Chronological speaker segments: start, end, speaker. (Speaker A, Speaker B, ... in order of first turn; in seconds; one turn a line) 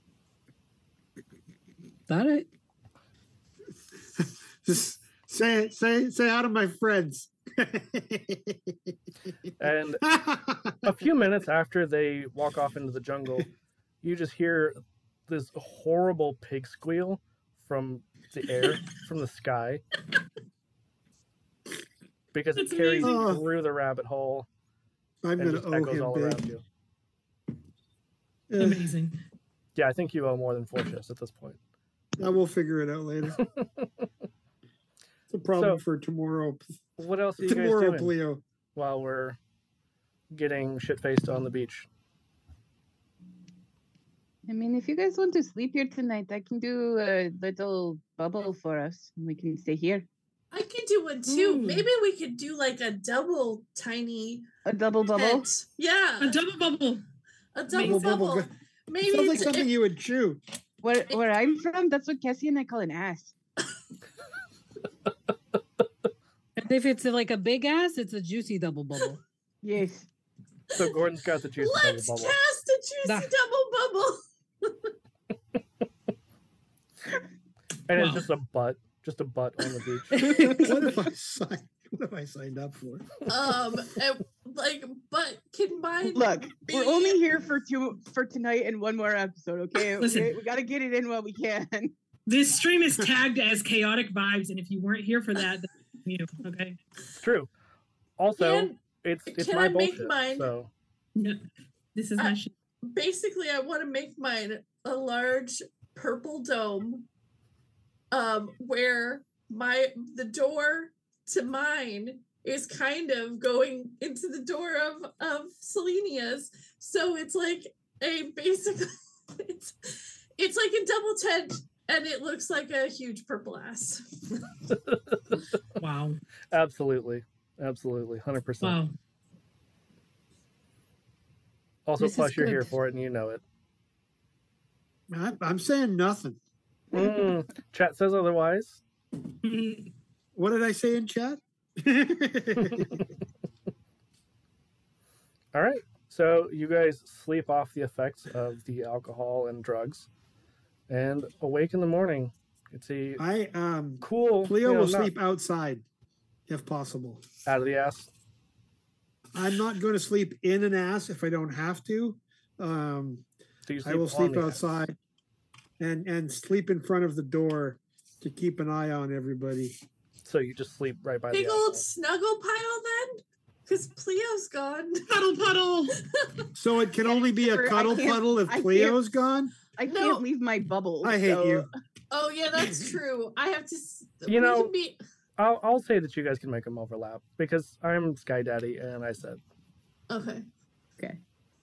Speaker A: 2.1-2.5
Speaker B: 4.2-8.9
Speaker C: 9.6-10.0
Speaker B: 10.0-10.9
Speaker C: 10.8-13.5
Speaker C: 14.0-19.8
Speaker C: 22.3-24.5
Speaker D: 22.5-23.2
Speaker B: 23.0-23.4
Speaker B: 25.2-26.4
Speaker C: 25.4-26.6
Speaker B: 28.5-28.8
Speaker D: 28.6-29.2
Speaker C: 29.8-31.6
Speaker B: 32.2-33.4
Speaker C: 33.4-33.9
Speaker B: 35.3-36.6
Speaker C: 37.0-38.1
Speaker B: 37.4-38.4
Speaker C: 38.7-39.4
Speaker C: 40.3-41.9
Speaker E: 44.5-50.1
Speaker F: 50.5-54.5
Speaker D: 51.3-51.9
Speaker E: 54.6-55.5
Speaker F: 55.1-56.4
Speaker D: 56.2-57.0
Speaker F: 57.5-59.7
Speaker D: 57.7-58.1
Speaker B: 57.8-58.5
Speaker B: 59.0-60.4
Speaker E: 60.8-63.3
Speaker A: 66.6-69.2
Speaker E: 69.6-70.0
Speaker C: 70.8-72.3
Speaker F: 71.6-74.9
Speaker A: 73.0-73.3
Speaker C: 77.9-80.7
Speaker D: 77.9-78.2
Speaker A: 80.1-80.7
Speaker B: 80.5-83.0
Speaker F: 83.3-87.2
Speaker E: 86.1-91.9
Speaker D: 90.0-90.3
Speaker D: 92.3-96.8
Speaker C: 97.2-97.5
Speaker C: 98.2-100.7
Speaker F: 98.4-98.8
Speaker F: 99.3-100.5
Speaker D: 101.9-102.5
Speaker F: 102.2-107.1
Speaker F: 108.1-124.5
Speaker C: 124.7-125.2
Speaker D: 125.8-126.2
Speaker C: 126.5-128.8
Speaker D: 128.6-128.9
Speaker C: 131.8-133.4
Speaker A: 132.0-132.8
Speaker B: 135.1-136.4
Speaker C: 136.9-138.8
Speaker D: 139.4-139.9
Speaker B: 140.3-143.0
Speaker C: 145.5-150.1
Speaker C: 150.9-153.2
Speaker B: 153.2-155.8
Speaker C: 154.0-155.1
Speaker B: 156.5-157.2
Speaker C: 157.4-158.1
Speaker B: 159.3-163.2
Speaker C: 163.7-164.6
Speaker B: 163.8-164.9
Speaker B: 165.8-169.7
Speaker C: 170.2-171.8
Speaker F: 171.3-175.0
Speaker D: 175.1-176.0
Speaker F: 176.1-176.5
Speaker B: 176.5-179.5
Speaker E: 177.0-179.0
Speaker E: 179.8-181.7
Speaker F: 179.8-180.2
Speaker B: 181.0-181.7
Speaker F: 182.1-185.0
Speaker C: 184.3-184.7
Speaker C: 185.4-189.4
Speaker F: 190.1-190.4